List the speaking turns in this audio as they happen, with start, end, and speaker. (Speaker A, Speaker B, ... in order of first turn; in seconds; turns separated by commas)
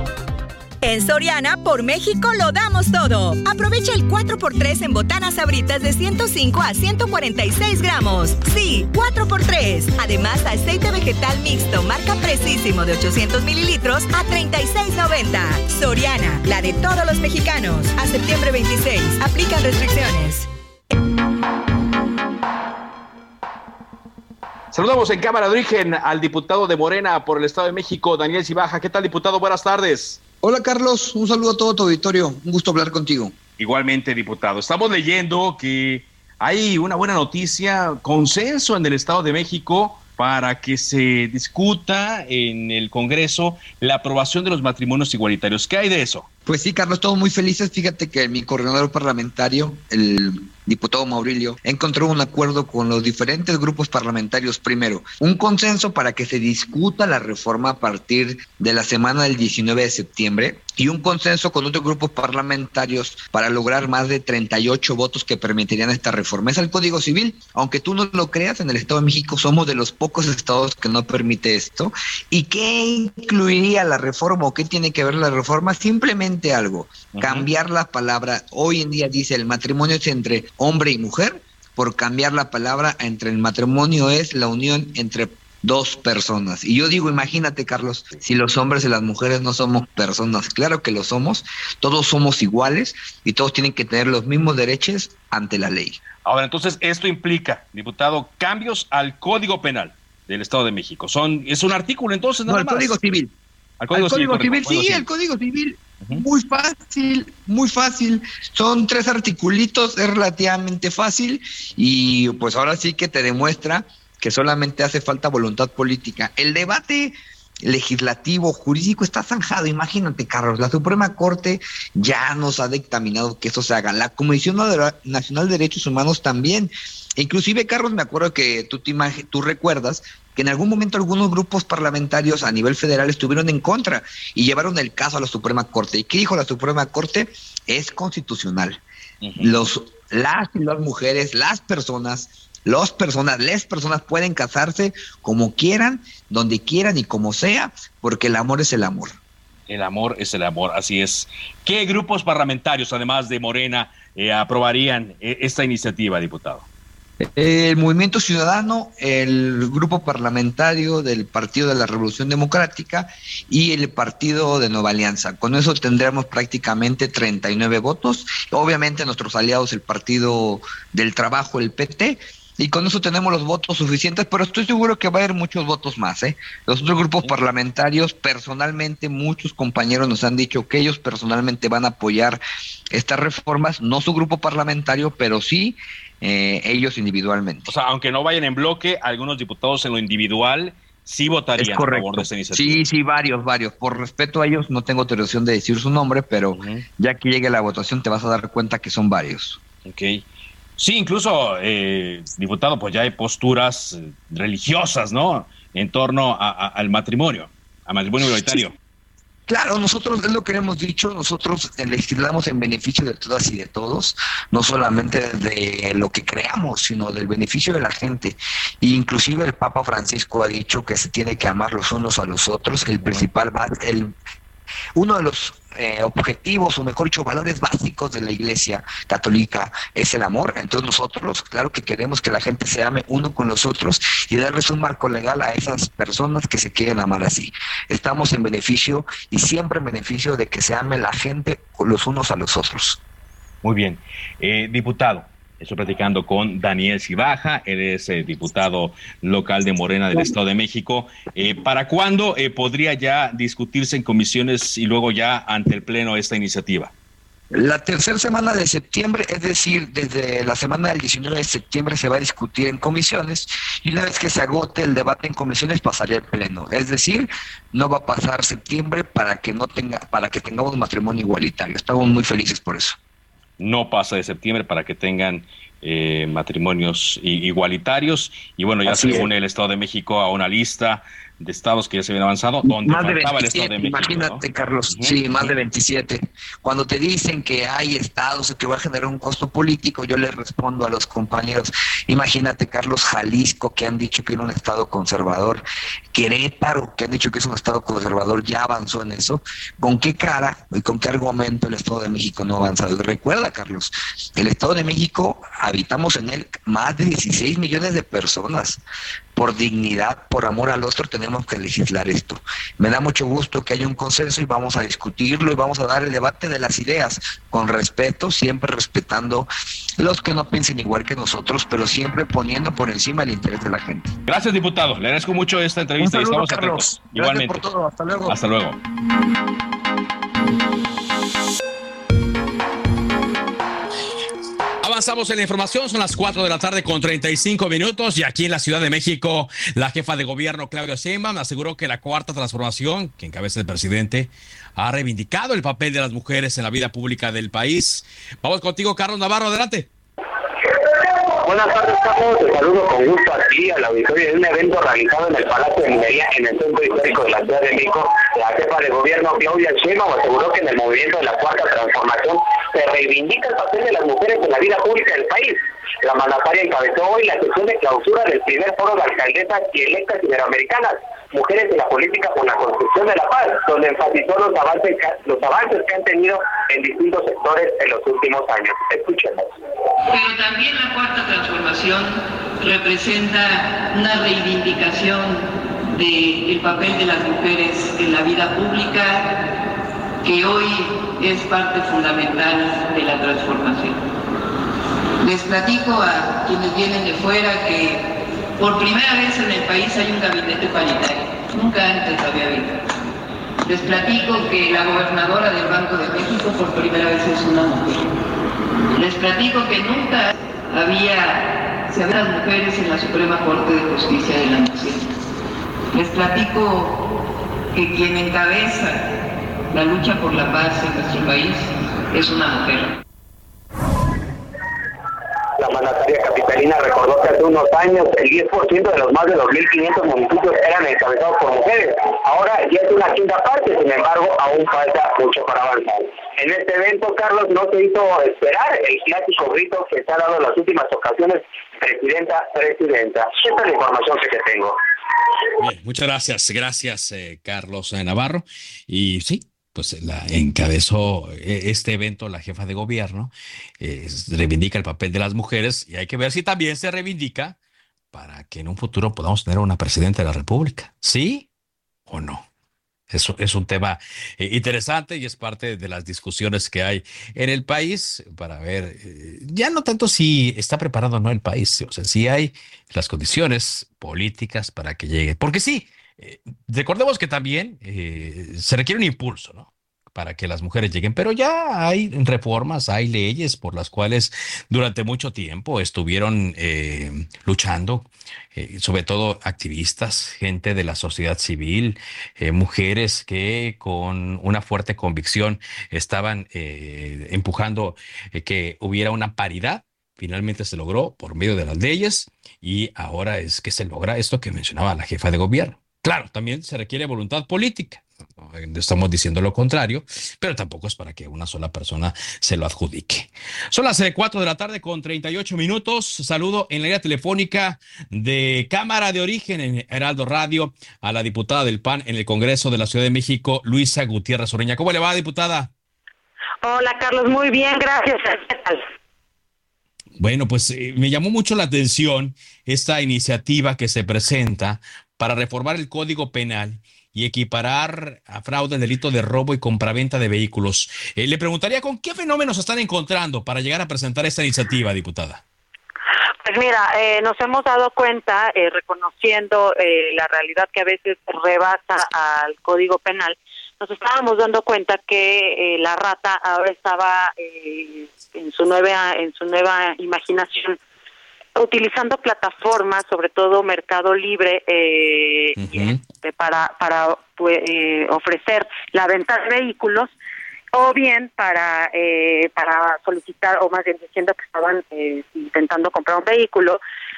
Speaker A: 0.8-20.5, Speaker B: 24.7-30.2, Speaker C: 30.4-33.4, Speaker B: 33.6-46.3, Speaker C: 46.5-96.0, Speaker B: 77.1-77.5, Speaker B: 96.2-103.0, Speaker C: 102.4-103.3, Speaker B: 103.8-105.0, Speaker C: 103.9-138.8, Speaker B: 139.2-139.6, Speaker C: 139.4-149.2, Speaker B: 149.7-156.7, Speaker C: 157.2-187.7, Speaker B: 187.7-192.8, Speaker C: 191.6-199.6, Speaker B: 196.5-196.8, Speaker B: 199.8-200.2, Speaker B: 200.8-208.7, Speaker C: 209.5-224.1, Speaker C: 224.9-243.0, Speaker B: 243.6-256.9, Speaker C: 257.5-273.0, Speaker B: 273.6-285.5, Speaker C: 278.9-279.3, Speaker C: 282.6-308.8, Speaker C: 309.3-324.1, Speaker B: 324.2-327.7, Speaker C: 326.0-328.4, Speaker B: 328.2-328.8, Speaker B: 334.8-349.9, Speaker D: 351.4-379.5, Speaker E: 380.0-389.4, Speaker E: 390.2-394.0, Speaker E: 395.2-402.8, Speaker E: 403.6-408.1, Speaker E: 408.9-415.1, Speaker E: 415.9-417.0, Speaker E: 417.7-419.1, Speaker E: 419.7-422.9, Speaker D: 425.6-444.8, Speaker B: 445.6-457.6, Speaker B: 458.1-461.5, Speaker B: 462.1-462.5, Speaker B: 463.1-525.7, Speaker F: 526.6-528.8, Speaker B: 530.2-545.4, Speaker F: 546.4-560.8, Speaker F: 561.5-570.1, Speaker B: 565.6-566.0, Speaker F: 570.7-576.8